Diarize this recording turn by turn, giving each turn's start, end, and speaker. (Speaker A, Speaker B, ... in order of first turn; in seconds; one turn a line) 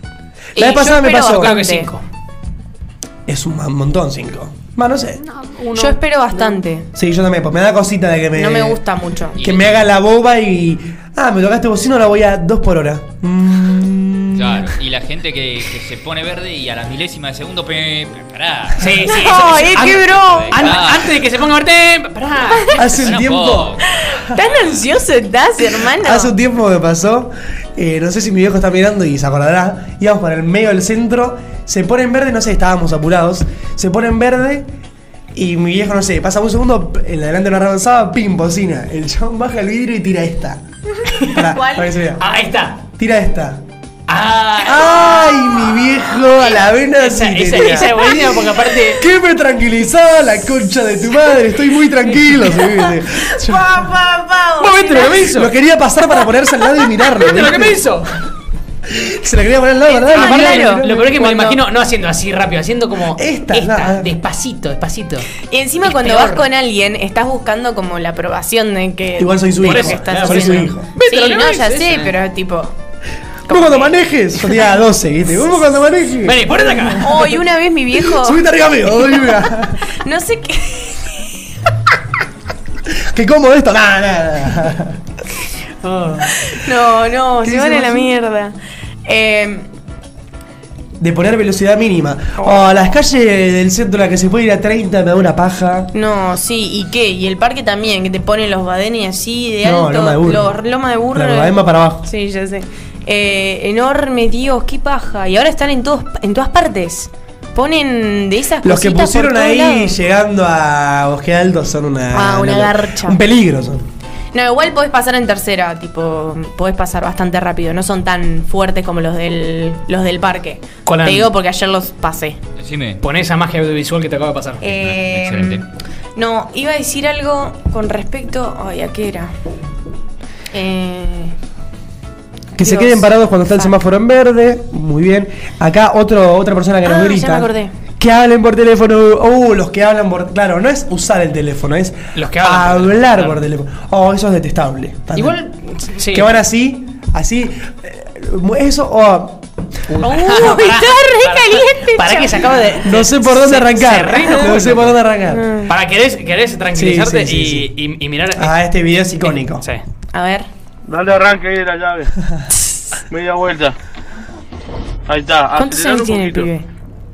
Speaker A: 0.6-1.9
Speaker B: 0.6-1.5
Speaker C: 1.2-2.0
Speaker B: 3.3-5.2
Speaker C: 5.2-6.6
Speaker A: 5.7-6.9
Speaker B: 7.0-8.8
Speaker A: 8.3-9.4
Speaker D: 9.4-9.9
Speaker B: 9.4-14.7
Speaker D: 14.3-21.1
Speaker C: 18.8-19.9
Speaker A: 19.1-20.7
Speaker B: 19.7-20.1
Speaker C: 20.5-23.0
Speaker B: 22.8-23.7
Speaker D: 22.9-23.9
Speaker A: 23.9-26.3
Speaker D: 24.4-24.8
Speaker B: 25.6-34.7
Speaker B: 35.3-40.6
Speaker A: 41.0-42.4
Speaker B: 41.2-42.2
Speaker C: 42.2-42.8
Speaker B: 43.0-43.6
Speaker C: 44.1-45.3
Speaker B: 44.6-48.1
Speaker A: 44.8-45.7
Speaker C: 47.0-49.0
Speaker A: 47.8-48.8
Speaker B: 49.0-53.9
Speaker A: 52.6-55.2
Speaker C: 54.6-55.5
Speaker B: 55.2-57.8
Speaker C: 57.1-58.2
Speaker B: 58.9-61.1
Speaker A: 59.9-61.6
Speaker C: 60.1-66.5
Speaker B: 63.1-64.1
Speaker A: 65.4-72.7
Speaker B: 69.2-70.9
Speaker C: 69.6-72.1
Speaker A: 73.5-74.0
Speaker B: 73.5-77.4
Speaker C: 76.2-77.2
Speaker A: 77.0-78.5
Speaker B: 78.0-79.9
Speaker A: 79.0-81.3
Speaker B: 82.9-85.0
Speaker C: 85.8-86.3
Speaker A: 86.3-89.7
Speaker B: 87.4-88.1
Speaker B: 91.0-95.9
Speaker A: 92.4-92.7
Speaker A: 95.9-110.0
Speaker B: 99.6-100.6
Speaker B: 101.1-102.1
Speaker B: 108.6-113.9
Speaker A: 112.1-113.2
Speaker A: 114.3-122.4
Speaker C: 120.8-121.3
Speaker D: 122.6-123.0
Speaker C: 123.0-124.6
Speaker A: 124.6-125.6
Speaker D: 124.7-125.6
Speaker A: 126.2-129.3
Speaker A: 130.5-131.3
Speaker A: 132.6-133.7
Speaker B: 132.6-145.4
Speaker A: 136.8-137.7
Speaker C: 142.1-143.4
Speaker C: 145.1-146.3
Speaker B: 146.1-149.4
Speaker C: 149.9-155.0
Speaker A: 150.0-152.5
Speaker B: 152.8-155.5
Speaker A: 155.3-155.7
Speaker C: 155.7-158.6
Speaker B: 156.7-157.7
Speaker B: 158.3-159.7
Speaker A: 160.1-160.5
Speaker E: 160.9-162.1
Speaker E: 163.1-163.7
Speaker E: 165.1-166.5
Speaker A: 165.5-166.7